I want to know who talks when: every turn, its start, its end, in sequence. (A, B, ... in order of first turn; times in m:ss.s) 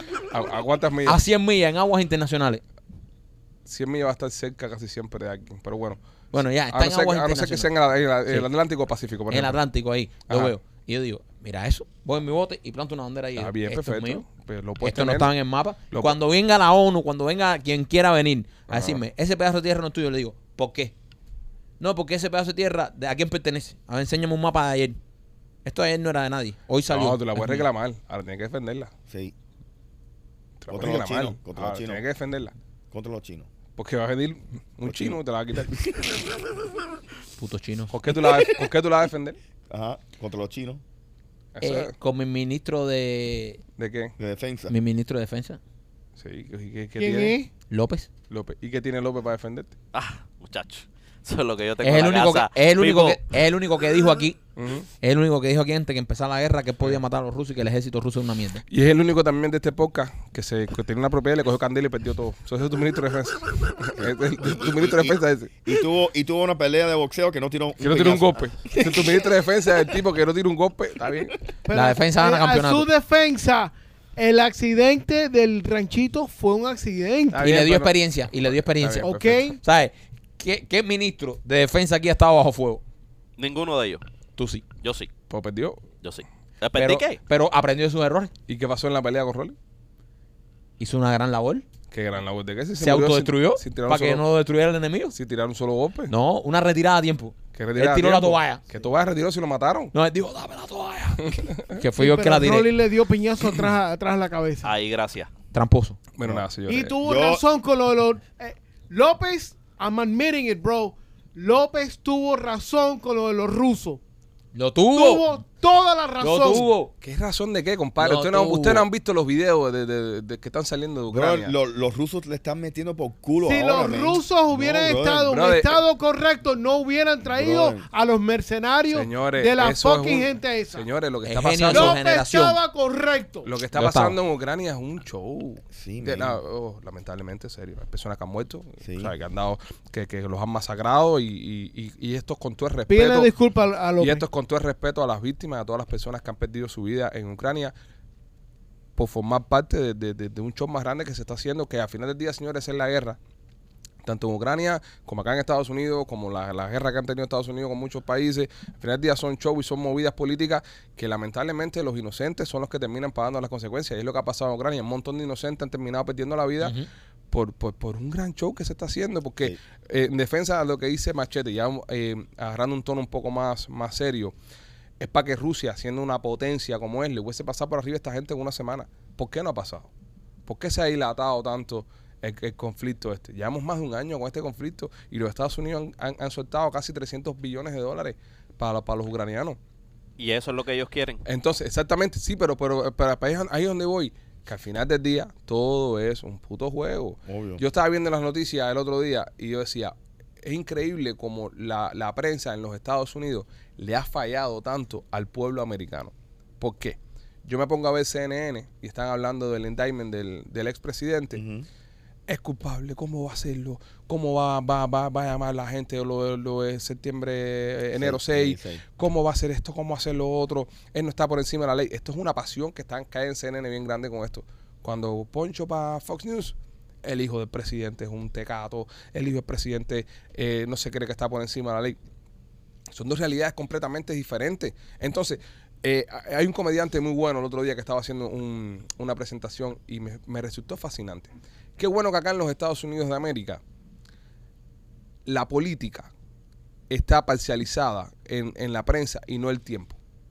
0:00.3-0:01.2 A
0:01.1-0:02.6 B
0:03.7-0:09.6 A
0:06.3-0:07.7 B
0:09.3-0:14.2 B
0:10.3-0:10.5 A
0:13.4-0:15.3 A
0:14.8-0:20.9 B
0:18.7-0:19.0 A
0:21.8-0:25.0 B
0:25.6-0:27.7 B
0:26.9-0:28.9 A
0:29.1-0:29.3 C
0:30.6-0:32.5 A
0:30.7-0:32.0 C
0:32.9-0:33.5 C
0:33.8-0:35.7 A
0:34.8-0:35.9 C
0:37.4-0:37.9 B
0:37.9-0:39.4 A
0:39.7-0:40.8 C
0:41.6-0:41.9 A
0:41.6-0:43.6 B
0:43.8-0:44.2 A
0:44.2-0:44.7 C
0:44.7-0:45.6 B
0:46.2-0:47.4 A
0:47.0-0:47.5 D
0:47.7-0:48.1 B
0:48.3-0:49.7 A
0:49.9-0:53.2 E
0:51.8-0:54.4 B
0:54.6-0:54.9 A
0:55.0-0:58.6 B
0:58.7-1:05.5 A
1:04.0-1:09.3 C
1:07.8-1:11.4 A
1:11.7-1:17.5 D
1:11.7-1:12.9 B
1:17.3-1:19.5 A
1:17.4-1:22.8 B
1:19.0-1:19.6 D
1:23.4-1:24.0 E
1:24.4-1:24.6 B
1:24.8-1:25.1 E
1:25.3-1:25.8 A
1:26.0-1:27.2 E
1:26.8-1:28.3 B
1:28.5-1:29.6 A
1:30.8-1:31.6 B
1:31.9-1:34.2 A
1:32.8-1:35.2 B
1:35.1-1:36.1 A
1:36.1-1:38.6 B
1:37.5-1:39.9 A
1:39.9-1:42.7 B
1:41.2-1:41.8 A
1:42.0-1:44.7 D
1:44.6-1:45.3 E
1:45.5-1:46.0 B
1:46.2-1:47.0 A
1:46.7-1:54.0 D
1:47.0-1:47.4 C
1:54.5-1:55.4 B
1:54.9-1:56.7 D
1:56.2-1:56.9 B
1:57.0-2:01.5 A
1:58.0-1:58.9 B
2:01.1-2:05.4 C
2:03.4-2:10.9 D
2:05.3-2:05.8 A
2:07.3-2:07.8 C
2:08.9-2:12.0 A
2:11.2-2:12.6 B
2:11.7-2:13.5 D
2:13.4-2:23.3 A
2:13.7-2:14.2 B
2:15.7-2:16.4 C
2:18.8-2:19.1 C
2:22.9-2:24.2 D
2:24.0-2:27.7 A
2:29.0-2:33.2 A
2:34.0-2:46.8 A
2:46.6-2:46.9 B
2:47.3-2:54.3 A
2:55.0-2:59.9 A
3:00.5-3:09.6 A
3:10.2-3:11.2 E
3:11.3-3:31.4 A
3:17.3-3:17.6 C
3:31.3-3:31.7 C
3:32.3-3:52.0 A
3:37.9-3:38.8 C
3:52.9-4:03.6 A
4:05.3-4:06.1 A
4:06.9-4:10.0 A